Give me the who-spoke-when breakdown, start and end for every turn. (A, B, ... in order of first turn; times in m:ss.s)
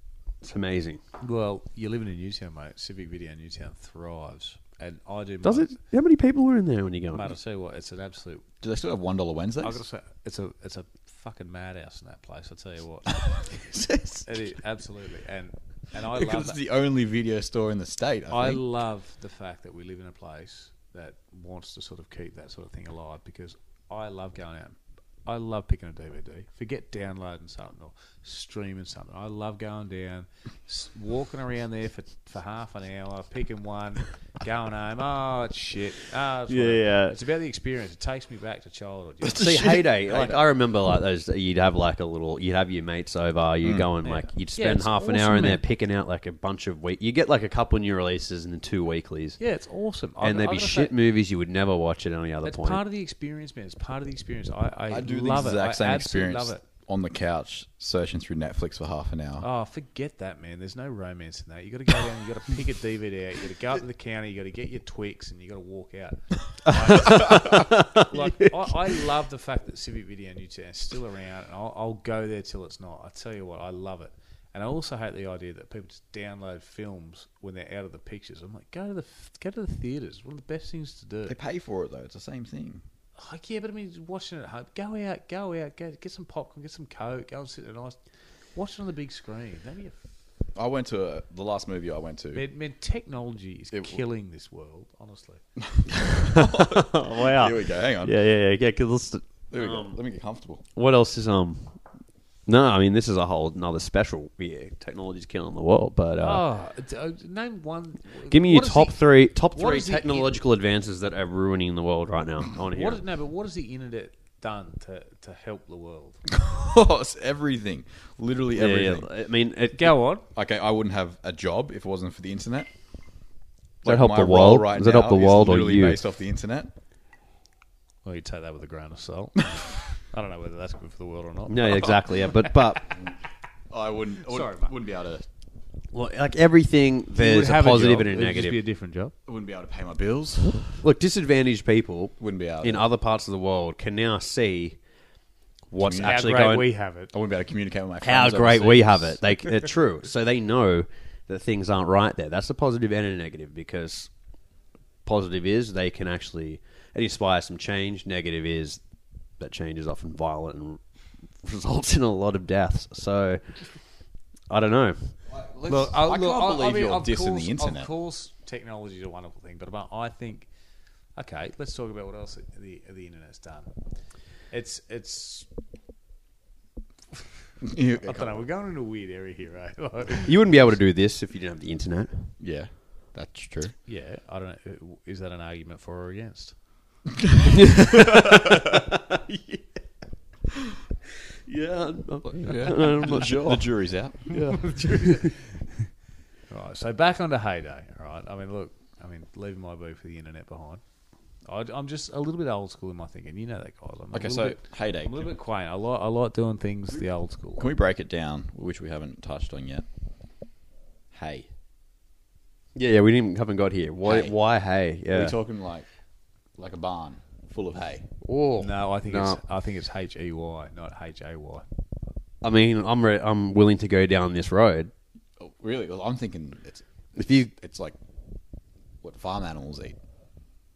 0:00.4-0:01.0 A
0:01.2-0:05.8 B
0:05.4-0:07.3 A
0:07.1-0:08.4 B
0:08.6-0:09.8 C
0:09.6-0:13.4 B
0:13.7-0:14.3 A
0:14.2-0:16.6 B
0:16.1-0:18.6 C
0:18.3-0:39.5 B
0:36.5-0:37.2 A
0:39.2-0:40.4 C
0:39.4-0:49.4 A
0:43.6-0:43.9 C
0:44.0-0:45.6 B
0:49.4-0:51.0 B
0:50.2-0:52.8 A
0:52.4-0:56.6 B
0:54.9-0:59.5 C
0:59.4-1:21.4 B
1:07.0-1:08.2 A
1:21.3-1:22.8 C
1:23.2-1:28.0 B
1:28.5-1:30.0 B
1:30.5-1:32.5 C
1:32.3-1:35.4 B
1:33.7-1:34.0 C
1:35.7-1:38.2 C
1:36.2-1:40.0 A
1:39.5-1:40.6 C
1:40.8-1:41.8 A
1:42.5-1:46.5 A
1:46.2-1:50.4 B
1:48.3-1:53.0 A
1:52.7-1:56.2 B
1:56.3-1:59.1 C
1:58.5-2:00.0 A
1:59.7-2:00.3 B
2:00.3-2:02.7 C
2:03.8-2:06.7 C
2:03.8-2:06.0 A
2:08.0-2:12.6 B
2:11.5-2:12.9 A
2:13.7-2:15.2 C
2:14.3-2:14.7 B
2:15.9-2:18.6 A
2:17.1-2:19.1 B
2:19.3-2:20.8 C
2:20.6-2:24.8 A
2:22.2-2:22.9 C
2:25.7-2:26.7 A
2:25.7-2:26.5 C
2:26.0-2:27.1 B
2:27.1-2:29.2 C
2:28.0-2:34.2 A
2:35.0-2:43.8 A
2:44.5-2:45.3 A
2:45.3-2:47.9 C
2:45.7-2:50.5 B
2:51.1-2:55.5 B
2:57.6-2:58.4 C
2:58.0-3:00.8 B
3:00.3-3:02.4 A
3:02.4-3:03.8 C
3:03.8-3:06.7 B
3:07.6-3:09.6 A
3:11.5-3:15.3 A
3:12.4-3:14.3 C
3:14.5-3:15.4 B
3:16.5-3:20.8 B
3:21.4-3:27.7 B
3:24.1-3:25.3 C
3:27.6-3:29.9 C
3:31.1-3:31.5 C
3:32.8-3:35.4 A
3:34.0-3:34.3 C
3:35.1-3:35.9 C
3:36.6-3:38.1 C
3:38.2-3:39.4 A
3:38.6-3:41.7 B
3:42.4-3:44.9 A
3:45.4-3:48.0 C
3:47.2-3:47.5 A
3:49.0-3:50.0 C